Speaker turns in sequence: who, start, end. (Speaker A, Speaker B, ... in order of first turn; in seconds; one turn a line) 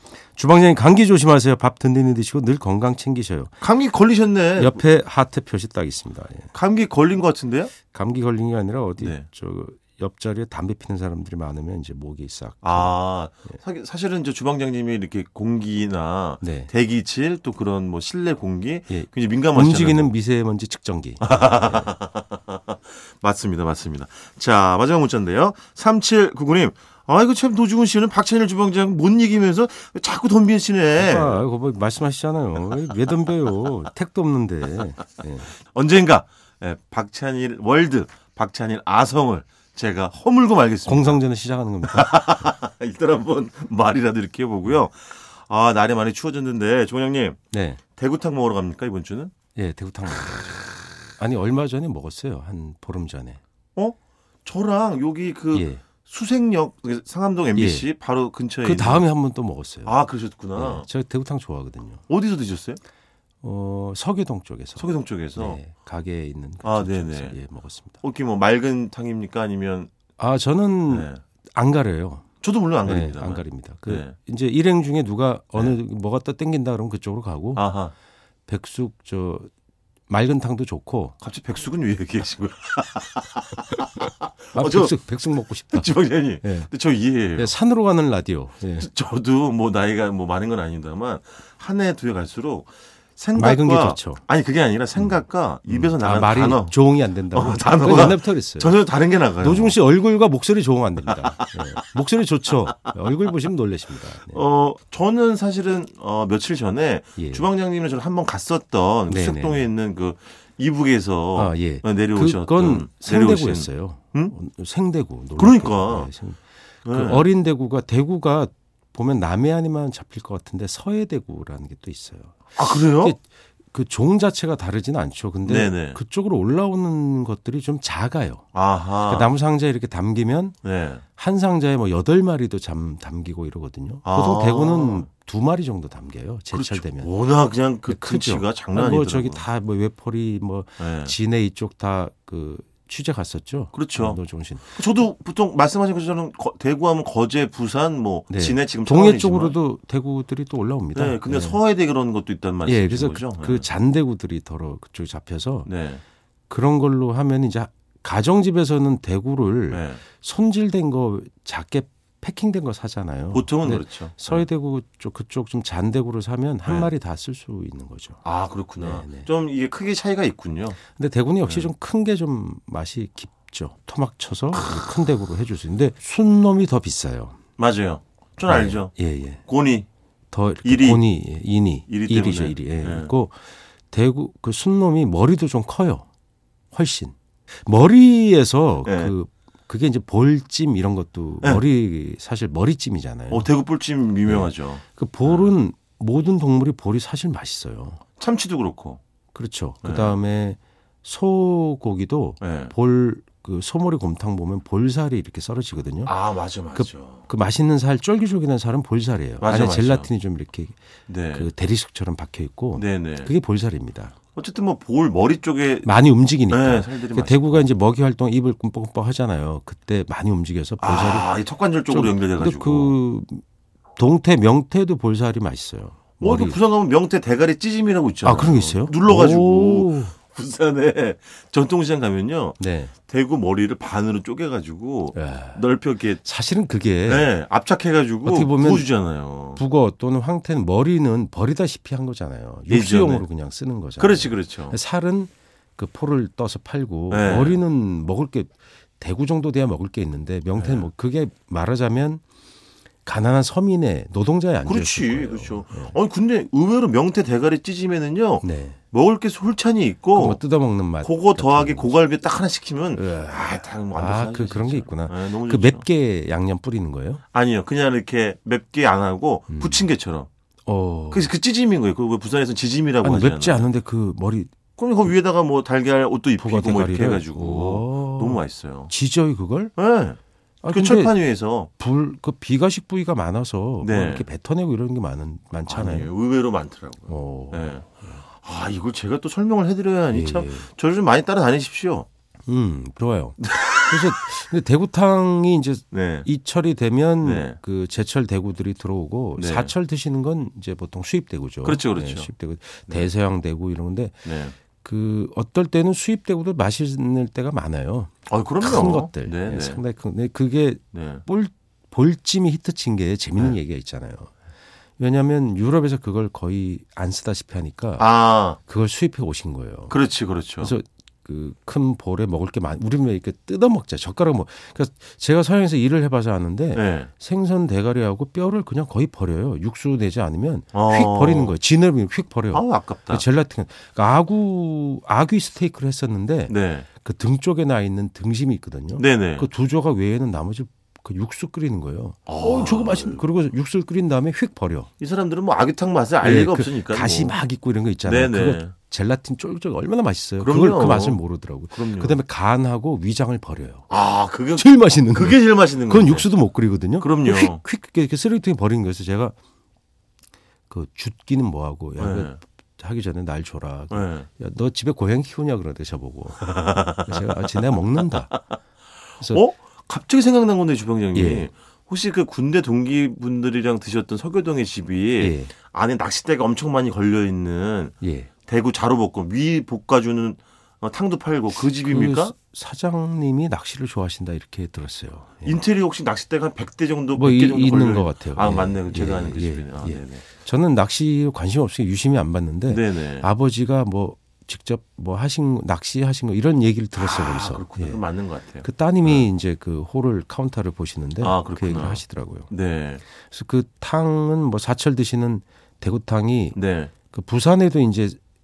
Speaker A: 0.3-3.5
Speaker B: 3.6-4.8
Speaker A: 4.6-6.5
Speaker B: 6.5-7.7
Speaker A: 7.9-13.6
Speaker B: 9.0-9.3
Speaker B: 12.6-20.1
Speaker A: 16.4-16.7
Speaker A: 18.9-21.9
Speaker B: 21.2-31.4
Speaker A: 30.9-35.5
Speaker B: 35.7-41.2
Speaker A: 40.9-42.3
Speaker B: 41.8-47.4
Speaker A: 47.5-47.8
Speaker B: 48.0-49.3
Speaker A: 49.5-53.4
Speaker B: 53.8-59.1
Speaker A: 55.5-55.8
Speaker A: 57.6-57.9
Speaker A: 58.6-62.0
Speaker B: 59.9-60.9
Speaker B: 62.1-62.8
Speaker A: 63.4-68.0
Speaker B: 64.8-65.6
Speaker B: 66.6-67.4
Speaker B: 68.0-69.9
Speaker A: 70.2-72.2
Speaker B: 70.9-71.2
Speaker B: 72.4-74.1
Speaker A: 72.8-77.7
Speaker B: 77.5-77.9
Speaker A: 78.5-79.5
Speaker A: 80.1-81.2
Speaker B: 81.2-87.5
Speaker A: 84.5-86.7
Speaker A: 87.4-88.9
Speaker B: 88.8-96.8
Speaker A: 93.4-94.2
Speaker A: 95.0-98.8
Speaker B: 97.3-99.8
Speaker A: 99.4-104.4
Speaker B: 101.0-101.8
Speaker B: 104.3-114.3
Speaker A: 107.2-107.5
Speaker A: 109.1-109.7
Speaker A: 111.3-128.5
Speaker B: 115.4-116.1
Speaker B: 116.8-117.3
Speaker B: 122.5-123.2
Speaker B: 125.4-126.0
Speaker B: 128.5-129.3
Speaker A: 129.0-130.6
Speaker B: 130.6-131.0
Speaker A: 131.2-137.1
Speaker B: 134.1-135.1
Speaker B: 136.5-139.4
Speaker A: 137.9-144.8
Speaker B: 140.8-141.2
Speaker B: 143.7-144.2
Speaker B: 144.7-149.6
Speaker A: 148.3-151.6
Speaker B: 150.9-153.7
Speaker A: 152.7-155.7
Speaker B: 155.7-156.0
Speaker A: 156.5-168.2
Speaker B: 159.7-160.0
Speaker B: 163.3-164.5
Speaker B: 168.2-170.8
Speaker A: 168.8-169.3
Speaker A: 170.9-177.4
Speaker B: 171.4-171.7
Speaker B: 177.6-178.9
Speaker A: 178.5-179.4
Speaker B: 179.5-179.9
Speaker A: 180.3-183.4
Speaker B: 180.6-181.0
Speaker B: 181.9-183.1
Speaker A: 183.9-186.1
Speaker A: 186.7-193.5
Speaker B: 188.8-189.1
Speaker B: 193.3-195.5
Speaker A: 194.3-198.0
Speaker B: 198.2-199.0
Speaker A: 199.3-206.1
Speaker B: 199.8-200.2
Speaker B: 202.4-202.7
Speaker B: 206.1-207.3
Speaker A: 206.7-210.8
Speaker B: 209.4-210.1
Speaker B: 211.1-211.5
Speaker A: 211.3-214.2
Speaker B: 212.8-213.3
Speaker B: 214.4-215.9
Speaker A: 215.8-221.3
Speaker B: 216.5-217.7
Speaker B: 220.8-223.0
Speaker A: 221.9-223.4
Speaker A: 224.0-226.6
Speaker B: 226.2-236.2
Speaker A: 228.2-230.1
Speaker A: 232.6-232.9
Speaker A: 235.2-235.6
Speaker A: 236.2-237.3
Speaker B: 237.1-239.6
Speaker A: 238.2-238.9
Speaker A: 239.5-252.2
Speaker B: 242.7-243.3
Speaker B: 244.0-244.8
Speaker B: 247.1-247.6
Speaker B: 250.6-250.9
Speaker A: 253.1-256.0
Speaker B: 254.6-260.4
Speaker A: 258.4-258.8
Speaker A: 260.1-261.9
Speaker B: 261.0-265.9
Speaker A: 263.0-267.2
Speaker B: 267.3-270.3
Speaker A: 269.5-269.8
Speaker A: 270.7-271.3
Speaker B: 271.1-273.7
Speaker A: 273.0-274.5
Speaker B: 274.8-278.9
Speaker A: 276.4-279.7
Speaker B: 279.8-281.7
Speaker A: 280.6-281.1
Speaker A: 281.8-286.1
Speaker B: 283.8-284.3
Speaker B: 285.7-292.1
Speaker A: 287.1-288.2
Speaker A: 290.1-290.7
Speaker A: 292.5-304.3
Speaker B: 293.4-294.2
Speaker B: 295.9-296.3
Speaker B: 297.2-297.6
Speaker B: 299.4-299.7
Speaker B: 301.6-302.3
Speaker B: 304.2-304.6
Speaker A: 304.8-314.3
Speaker B: 308.3-309.8
Speaker B: 310.9-311.2
Speaker A: 315.0-320.0
Speaker B: 318.0-318.6
Speaker B: 319.9-320.8
Speaker A: 320.6-344.9
Speaker B: 326.8-327.1
Speaker B: 330.7-331.6
Speaker B: 332.5-333.2
Speaker B: 336.5-336.9
Speaker B: 338.9-339.5
Speaker B: 342.3-343.2
Speaker B: 345.0-347.4
Speaker A: 346.2-353.9
Speaker B: 348.0-348.7
Speaker B: 350.4-351.2
Speaker B: 351.7-352.2
Speaker B: 353.9-356.3
Speaker A: 354.6-359.4
Speaker B: 357.0-357.6
Speaker A: 360.7-368.4
Speaker B: 362.0-362.4
Speaker B: 363.9-364.3
Speaker B: 366.4-368.4
Speaker A: 369.2-369.4
Speaker B: 369.2-377.9
Speaker A: 371.1-371.5
Speaker A: 375.2-375.5
Speaker A: 378.0-378.3
Speaker B: 378.5-382.3
Speaker A: 381.6-385.6
Speaker B: 385.4-390.2
Speaker A: 387.1-398.0
Speaker B: 392.7-393.3
Speaker B: 396.9-399.3
Speaker A: 398.6-402.5
Speaker B: 401.2-403.0
Speaker A: 403.2-406.6
Speaker B: 406.6-406.9
Speaker A: 407.1-408.2